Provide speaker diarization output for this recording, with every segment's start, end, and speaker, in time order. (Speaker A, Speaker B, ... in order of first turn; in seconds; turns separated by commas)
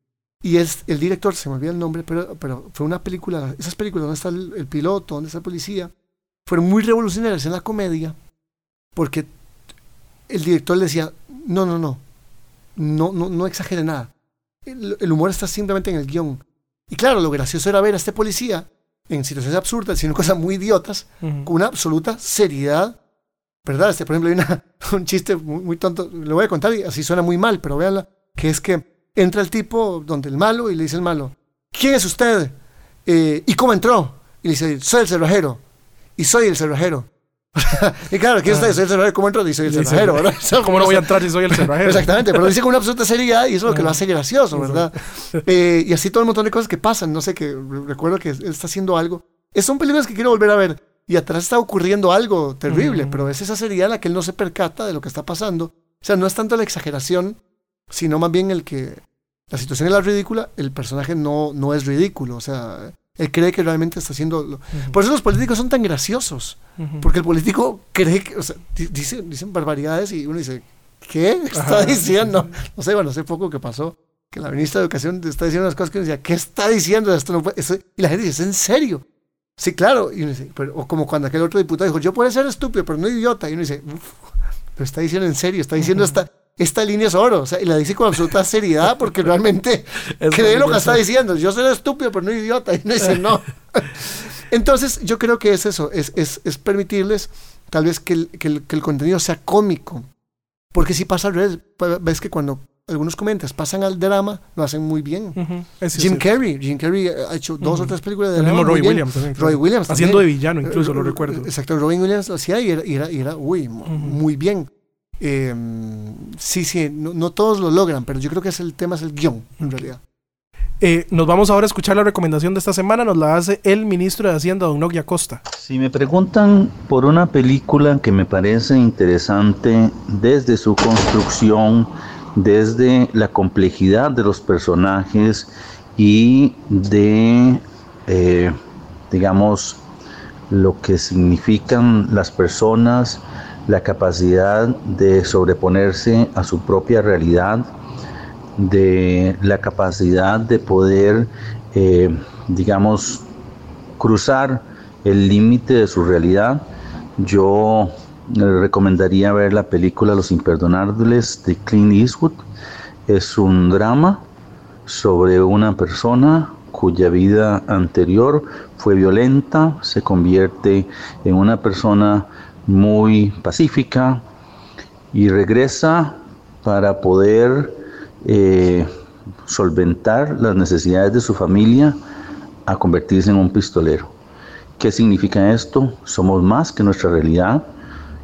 Speaker A: 0.4-5.9, Speaker A: 6.5-8.2, Speaker A: 8.9-9.3, Speaker A: 10.3-12.0, Speaker A: 12.8-14.1, Speaker A: 14.7-23.0, Speaker B: 21.2-21.5, Speaker A: 23.6-32.5, Speaker A: 33.0-35.6, Speaker A: 36.2-57.4, Speaker B: 39.6-42.5, Speaker B: 43.7-44.0, Speaker B: 44.5-45.4, Speaker B: 52.7-53.3, Speaker A: 57.9-79.0, Speaker B: 66.8-67.1, Speaker B: 71.5-72.3, Speaker A: 79.6-84.2, Speaker A: 84.8-100.0, Speaker B: 90.2-91.0, Speaker A: 100.7-105.4, Speaker B: 105.3-106.2, Speaker A: 105.9-114.7, Speaker B: 107.6-111.5, Speaker B: 113.8-114.2, Speaker A: 115.2-120.0, Speaker B: 120.8-125.4, Speaker C: 125.5-138.6, Speaker C: 139.1-139.8, Speaker C: 140.5-147.7, Speaker C: 148.6-153.2, Speaker C: 154.0-156.6, Speaker C: 157.2-162.4, Speaker C: 163.1-164.2, Speaker C: 164.8-174.2, Speaker C: 175.1-178.9, Speaker C: 179.5-182.0, Speaker C: 182.7-184.1, Speaker C: 184.8-187.6